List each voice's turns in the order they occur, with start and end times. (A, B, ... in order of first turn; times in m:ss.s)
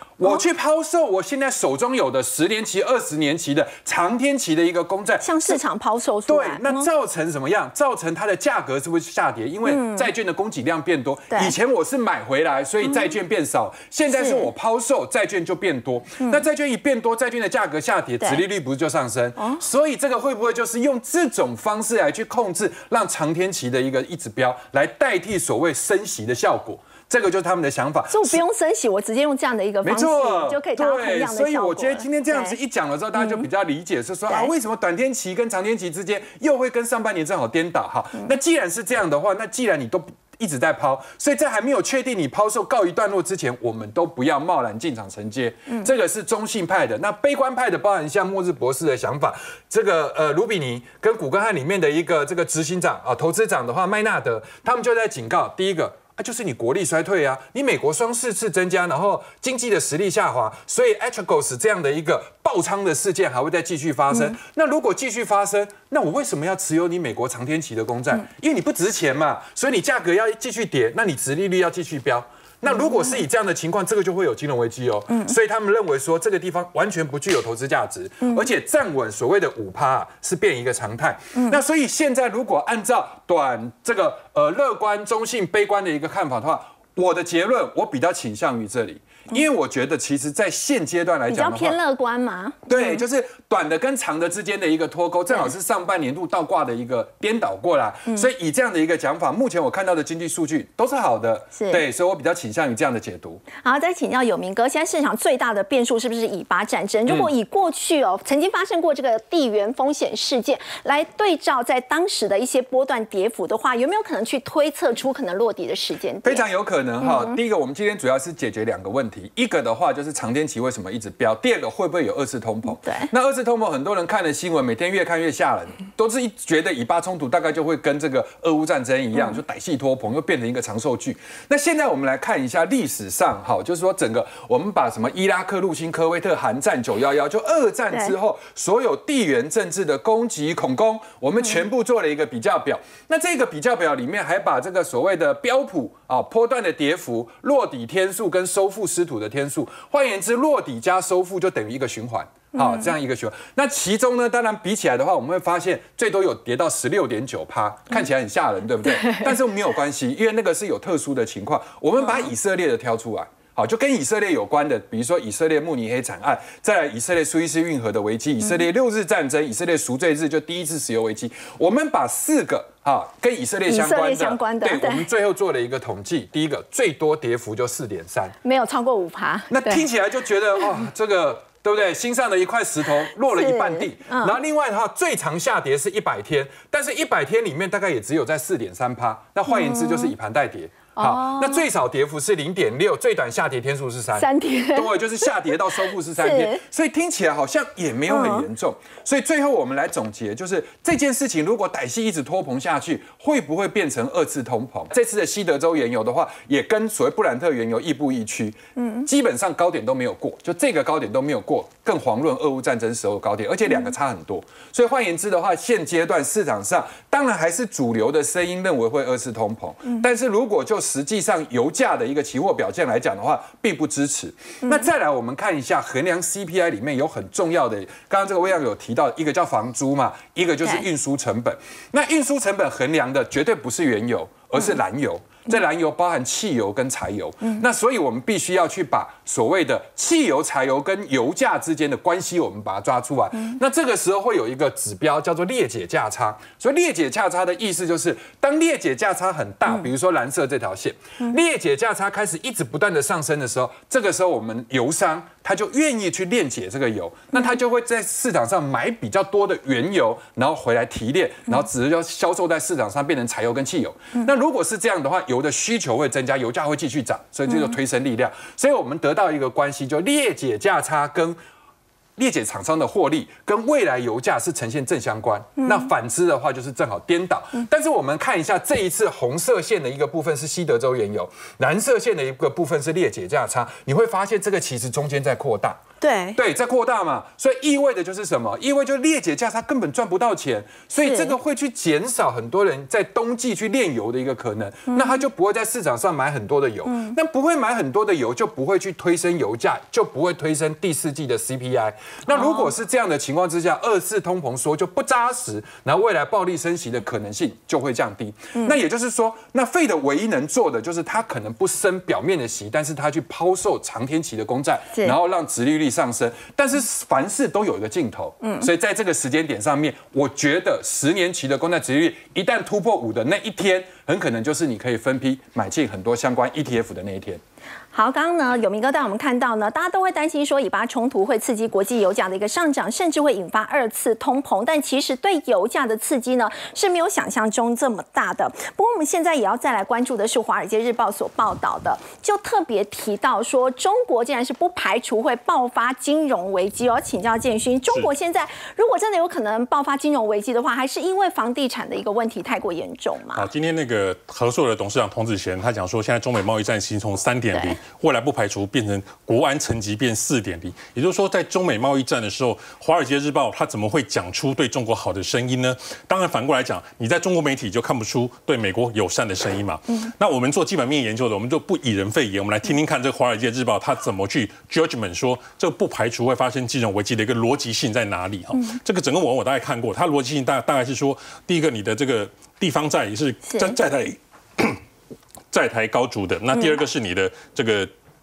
0:00.2-0:05.6 A
0:05.2-0:06.9 B
0:06.3-0:28.4 A
0:09.6-0:10.1 B
0:12.8-0:13.1 B
0:14.1-0:14.5 B
0:28.1-0:32.5 B
0:29.8-1:31.8 A
0:33.1-0:33.5 B
1:04.1-1:04.4 B
1:12.7-1:13.2 B
1:15.1-1:15.3 B
1:31.3-1:33.0 B
1:32.7-1:43.4 A
1:41.5-1:41.8 B
1:43.6-1:56.4 B
1:56.2-2:58.4 A
1:57.0-1:57.4 B
2:02.8-2:03.1 B
2:32.6-2:32.9 B
2:38.9-2:39.3 B
2:53.7-2:55.0 B
2:58.4-2:59.8 B
2:59.5-4:31.4 A
3:03.3-3:04.3 B
3:09.5-3:10.1 B
3:11.0-3:11.6 B
3:14.2-3:15.3 B
3:16.2-3:16.6 B
3:18.1-3:18.5 B
3:28.8-3:29.1 B
4:27.5-4:27.7 B
4:32.2-4:45.8 A
4:35.6-4:35.9 B
4:46.0-4:46.4 B
4:46.4-5:27.4 A
4:50.9-4:51.3 B
4:54.9-4:55.2 B
4:56.9-4:57.2 B
5:02.3-5:02.7 B
5:18.4-5:18.7 B
5:27.9-5:53.5 B
5:53.3-6:24.8 C
5:57.5-5:57.8 B
6:23.4-6:23.8 B
6:25.5-6:27.9 C